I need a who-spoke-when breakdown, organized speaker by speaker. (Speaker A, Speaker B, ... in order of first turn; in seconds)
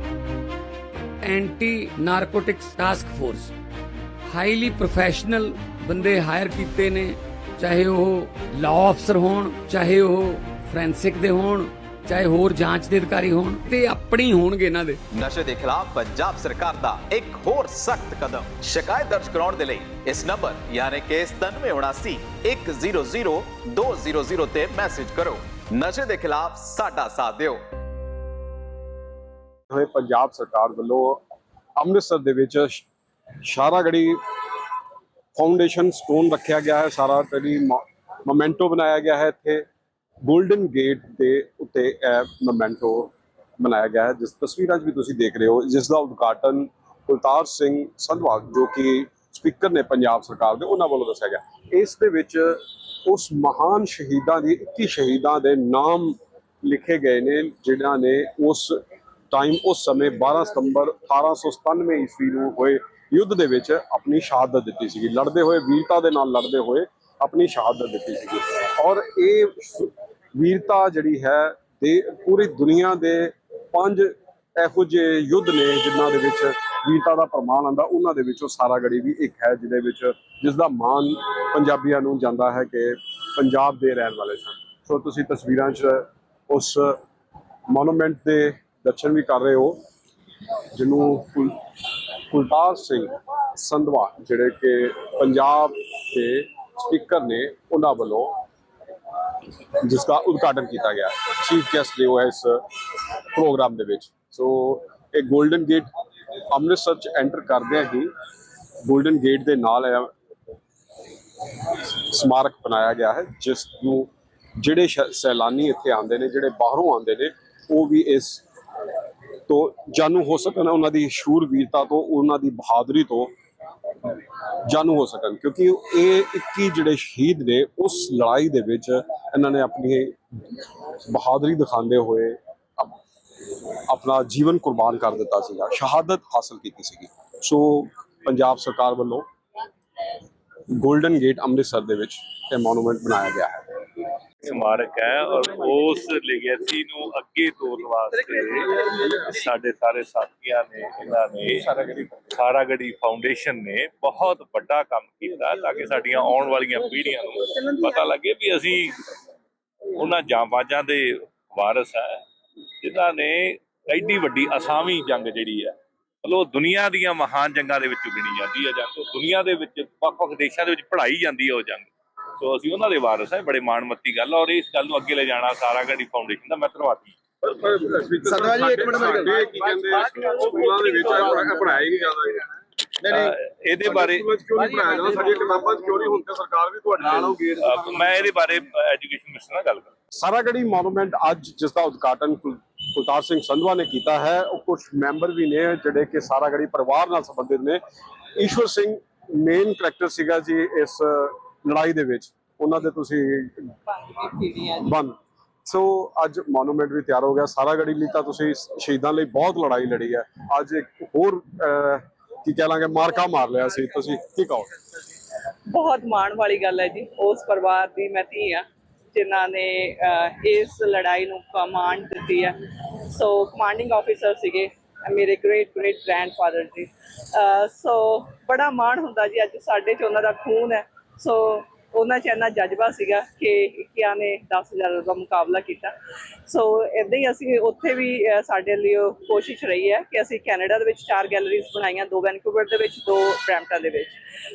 Speaker A: 1.2-3.5, 4.3-15.0
Speaker B: 15.1-27.6
Speaker C: 29.7-31.2, 31.8-32.9, 33.4-34.2, 35.4-39.6, 40.2-58.8, 59.3-87.0, 87.7-89.8, 90.7-91.6, 92.3-98.4, 99.8-105.9, 106.5-108.1, 108.8-110.1, 111.6-118.4, 119.5-123.3, 124.7-133.0, 133.9-139.3, 140.7-143.7, 177.5-182.5, 183.1-183.3, 183.8-188.1, 190.2-197.8, 198.4-203.7, 204.8-214.9
Speaker D: 144.4-159.0, 159.9-162.2, 162.8-177.2, 183.0-184.3, 187.6-189.9
Speaker E: 203.9-204.9, 215.7-222.6, 223.1-235.9, 236.4-244.2